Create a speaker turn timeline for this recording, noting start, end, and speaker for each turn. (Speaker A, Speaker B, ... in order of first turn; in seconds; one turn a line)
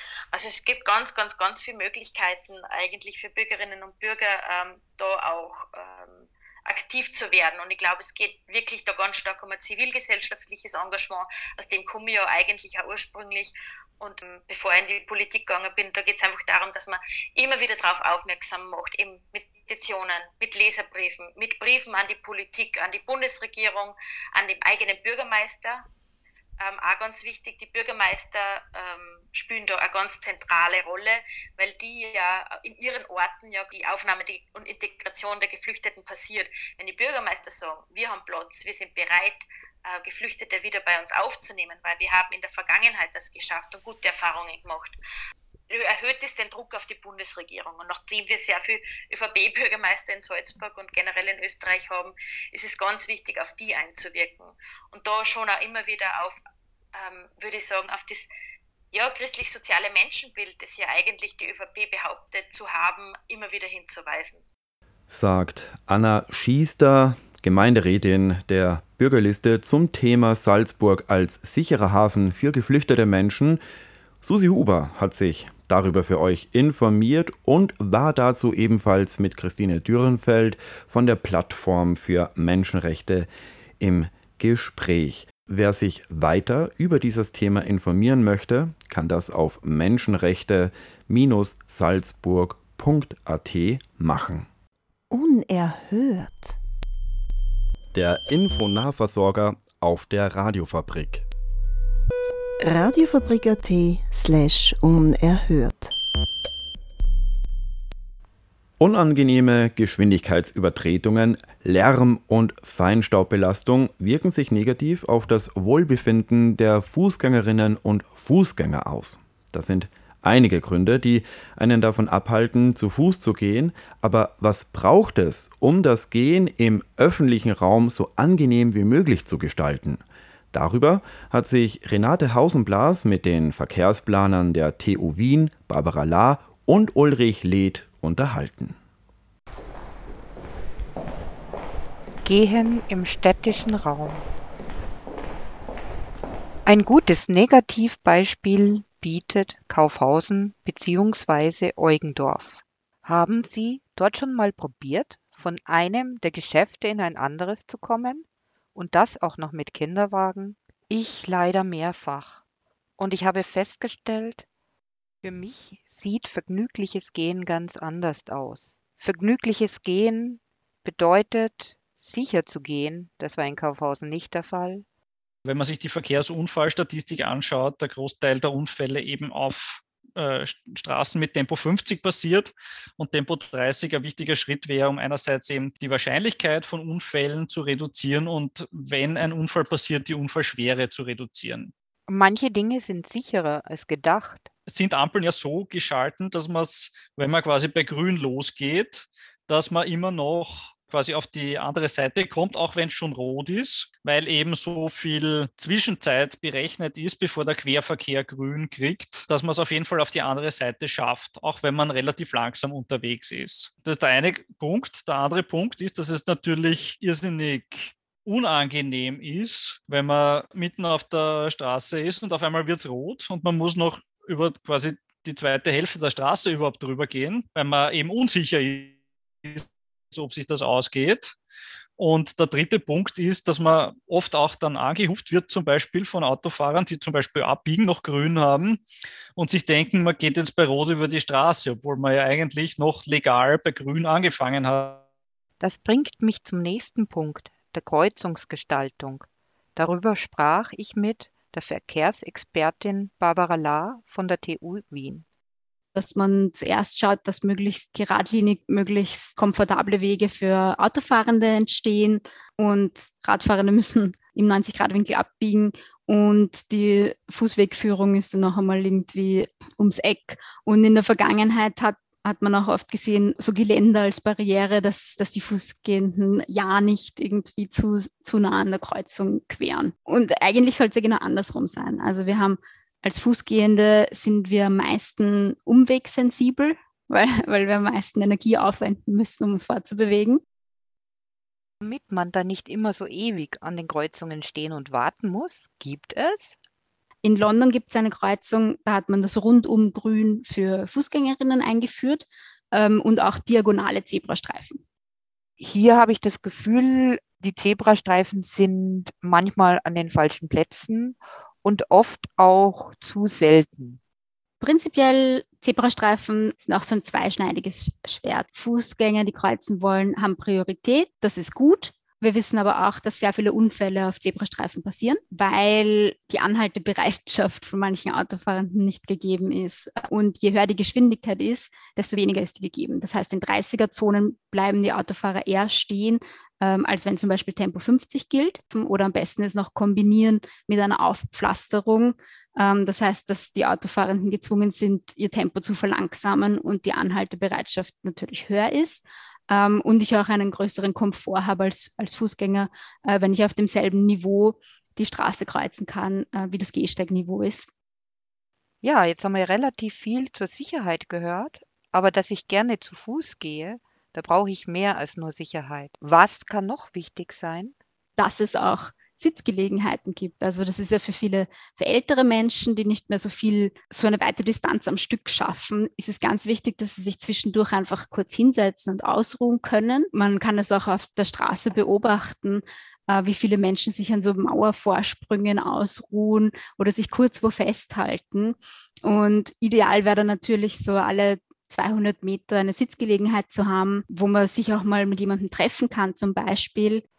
Speaker A: 0.3-25.9
Speaker A: 26.6-45.0
Speaker A: 45.7-56.4
Speaker A: 56.9-58.3
Speaker A: 58.9-64.4
Speaker B: 65.1-73.6
Speaker B: 74.2-83.3
Speaker B: 83.8-94.5
Speaker C: 95.1-96.6
Speaker B: 97.9-101.3
Speaker C: 102.6-105.9
Speaker B: 108.8-138.8
Speaker D: 142.2-144.2
Speaker D: 146.7-162.4
Speaker D: 163.0-164.5
Speaker D: 165.2-174.8
Speaker E: 175.4-191.7
Speaker D: 192.1-194.5
Speaker E: 194.7-231.4
Speaker E: 232.0-238.8
Speaker E: 239.4-245.0
Speaker D: 245.6-249.2
Speaker D: 249.8-255.2
Speaker F: 255.9-290.4
Speaker D: 291.8-296.6
Speaker F: 297.2-304.8
Speaker D: 305.6-314.0
Speaker F: 314.6-357.7
Speaker D: 358.8-367.8
Speaker F: 368.2-397.0